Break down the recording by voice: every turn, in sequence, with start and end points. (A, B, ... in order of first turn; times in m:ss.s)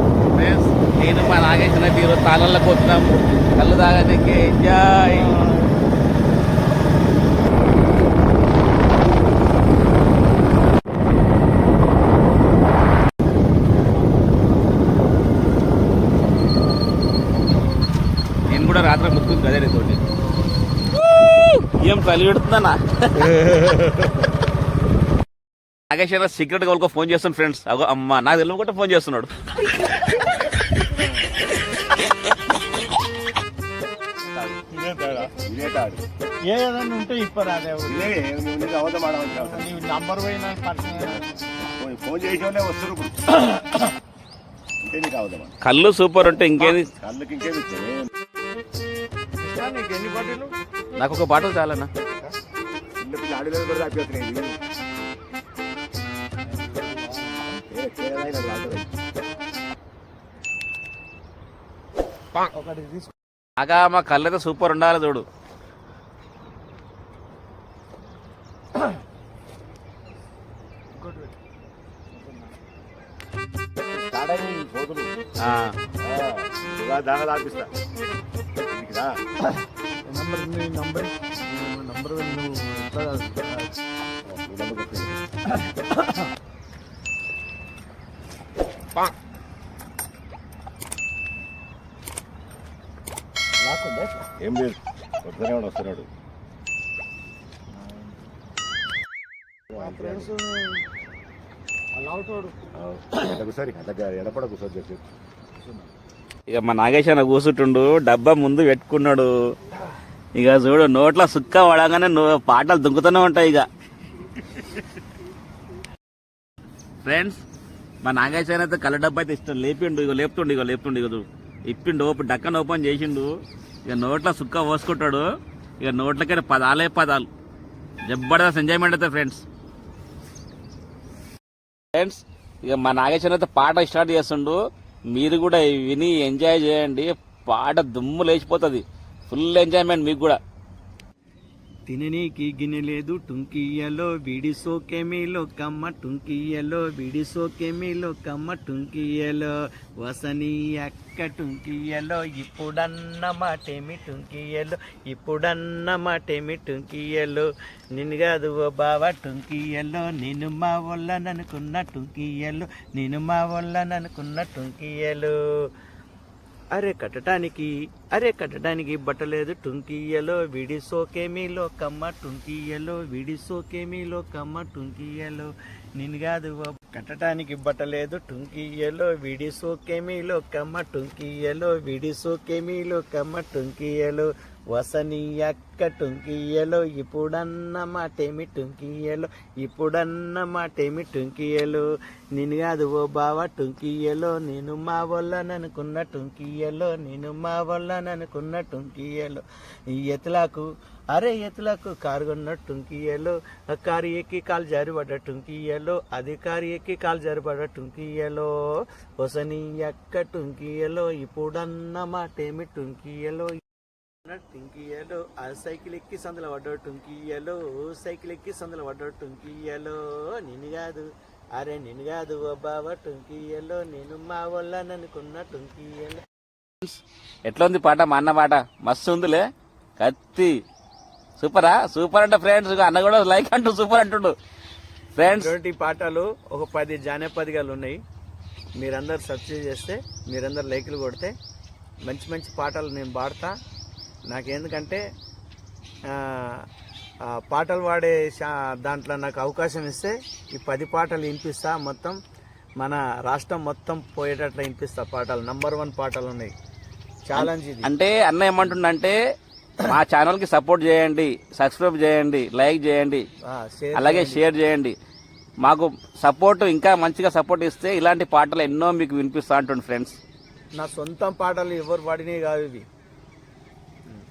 0:00.3-0:05.4 A
0:05.4-0:05.7 B
0:18.5-0:20.0 A
0:21.4-0:23.9 A
0:25.9-0:29.3 A
0:34.2-0:34.6 C
0:34.7-0:35.3 B
0:35.2-0:36.0 C
0:36.5-0:38.2 B
0:37.9-0:39.7 C
0:39.4-0:41.4 B
0:41.6-0:43.8 C
0:44.8-0:45.6 C
0:45.6-0:46.9 A
0:46.9-0:48.1 C
0:49.4-0:50.5 B
0:51.0-0:51.9 A
0:53.0-0:54.6 C
0:57.7-0:58.9 C
1:02.6-1:03.0 B
1:03.6-1:05.2 A
1:11.0-1:11.3 B
1:13.8-1:15.1 C
1:15.4-1:15.8 A
1:16.0-1:17.7 C
1:18.7-1:19.1 C
1:20.0-1:23.7 B
1:24.3-1:25.2 C
1:33.6-1:34.2 B
1:34.4-1:36.1 C
1:39.7-1:40.3 C
1:39.8-1:40.8 B
1:42.0-1:42.5 B
1:42.8-1:45.0 C
1:46.5-1:49.3 A
1:50.4-1:53.7 A
1:57.0-1:57.4 A
1:58.0-2:03.3 A
2:03.9-2:05.3 A
2:05.8-2:07.3 A
2:08.1-2:09.4 A
2:12.0-2:14.6 A
2:15.1-2:20.4 A
2:21.9-2:45.7 B
2:46.7-3:28.5 B
3:29.2-3:33.6 B
3:34.2-3:46.2 B
3:46.8-3:49.4 A
3:50.0-3:50.5 A
3:51.4-3:54.3 A
3:55.2-3:55.5 A
3:55.2-3:58.0 B
3:58.8-4:01.3 B
4:02.1-4:03.5 B
4:04.3-4:05.0 B
4:06.1-4:06.6 B
4:07.3-4:12.2 B
4:12.8-4:16.5 B
4:17.3-4:17.9 B
4:17.4-4:19.2 A
4:19.8-4:23.3 A
4:23.5-4:24.5 B
4:24.0-4:25.0 A
4:25.6-4:30.2 A
4:30.8-4:32.9 B